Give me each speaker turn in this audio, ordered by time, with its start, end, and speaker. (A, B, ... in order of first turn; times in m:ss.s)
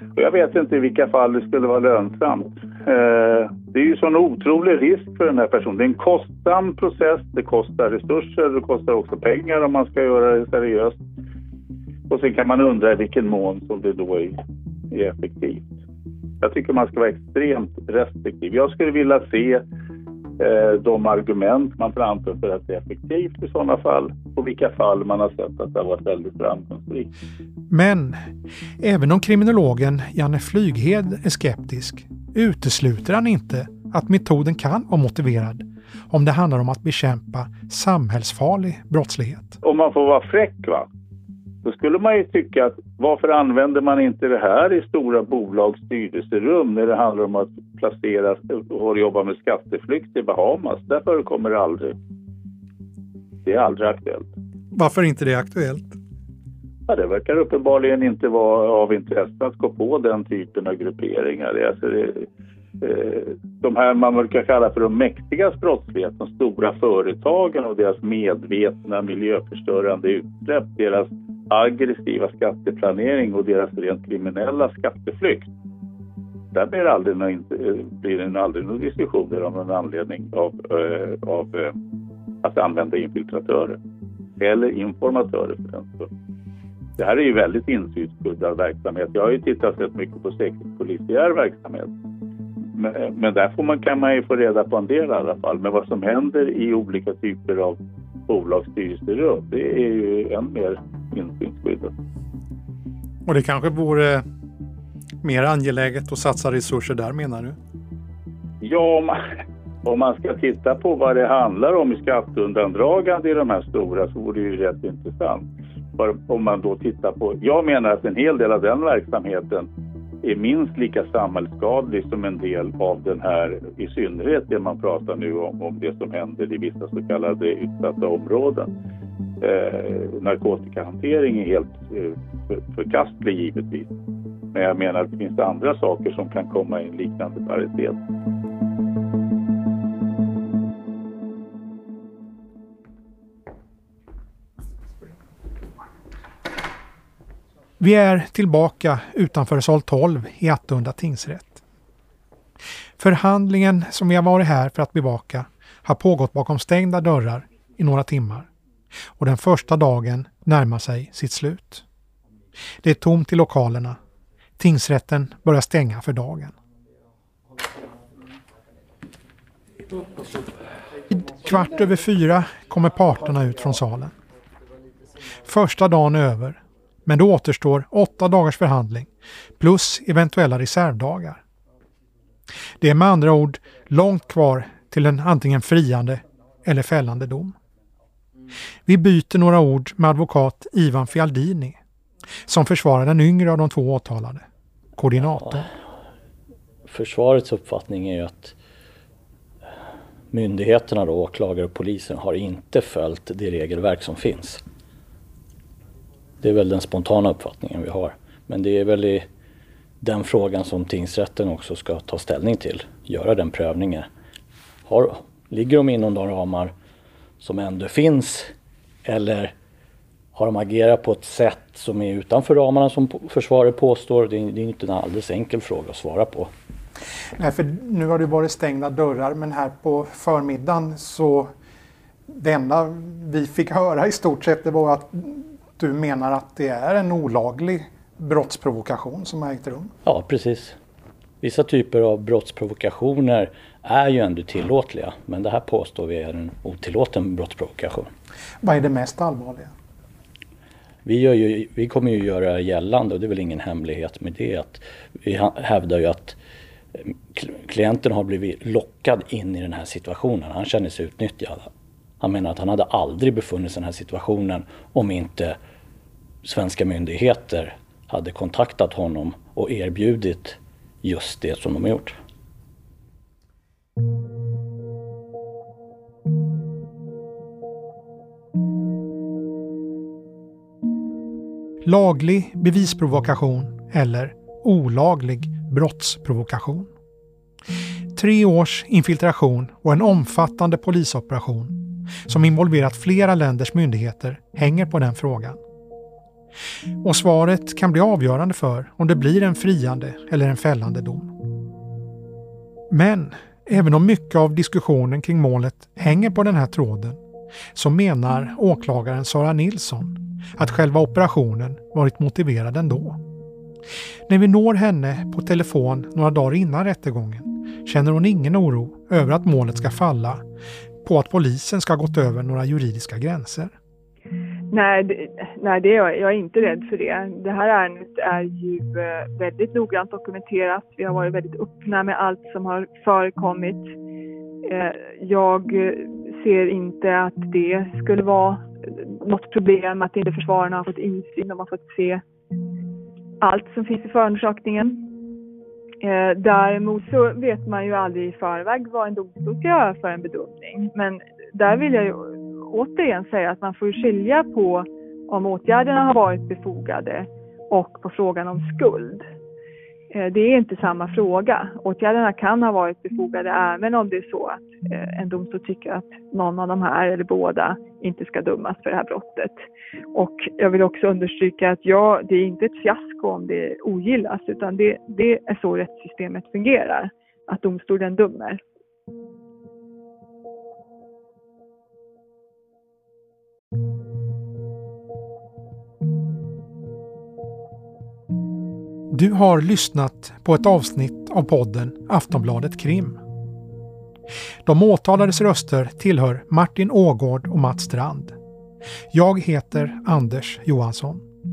0:00.2-0:11.0 A
0:12.1-0:14.4 A
0:14.9-0:15.8 A
0:16.4-0:19.6 A
0:20.4-0:27.1 A
0:27.7-0:28.2 B
0:28.8-0:39.6 B
0:39.6-0:40.9 A
0:41.6-0:51.9 A
0:53.4-0:54.3 A
0:54.7-0:56.0 B
0:56.9-1:02.3 A
1:02.8-1:15.5 A
1:16.5-1:21.7 A
1:22.4-1:23.8 A
1:24.4-1:26.1 A
1:27.0-1:31.9 A
1:32.8-1:41.9 A
1:43.2-1:44.3 B
1:45.2-1:47.6 B
1:48.6-1:49.2 A
1:49.8-1:55.5 A
1:56.0-1:59.7 A
2:00.2-2:08.7 A
2:09.4-2:13.9 A
2:14.5-2:18.0 A
2:27.8-2:31.6 B
2:33.0-2:38.5 B
2:39.2-2:41.8 B
2:42.8-2:44.0 B
2:44.6-2:46.5 B
2:51.1-2:54.2 B
2:55.4-2:59.1 B
2:59.6-3:01.4 B
3:02.8-3:07.6 B
3:08.8-3:11.8 B
3:12.5-3:14.4 B
3:15.0-3:15.7 B
3:16.9-3:18.6 C
3:20.3-3:24.6 C
3:26.4-3:29.3 C
3:30.0-3:34.1 C
3:34.9-3:36.7 C
3:37.4-3:38.5 C
3:39.1-3:39.5 C
3:40.4-3:46.5 C
3:47.4-3:51.5 B
3:52.3-3:59.9 B
4:00.0-4:00.8 C
4:01.4-4:08.1 C
4:08.6-4:09.7 B
4:11.0-4:16.4 C
4:17.3-4:25.6 C
4:26.4-4:32.2 C
4:41.8-4:46.9 B
4:48.1-4:55.6 B
4:57.0-5:01.3 B
5:02.9-5:07.2 B
5:07.8-5:13.2 B
5:14.3-5:20.4 B
5:21.0-5:23.7 B
5:24.7-5:33.9 D
5:34.6-5:42.2 D
5:43.4-5:45.1 D
5:46.0-5:59.2 D
6:00.1-6:09.6 D
6:10.1-6:18.6 D
6:29.1-6:33.2 B
6:34.6-6:38.4 B
6:39.1-6:41.2 B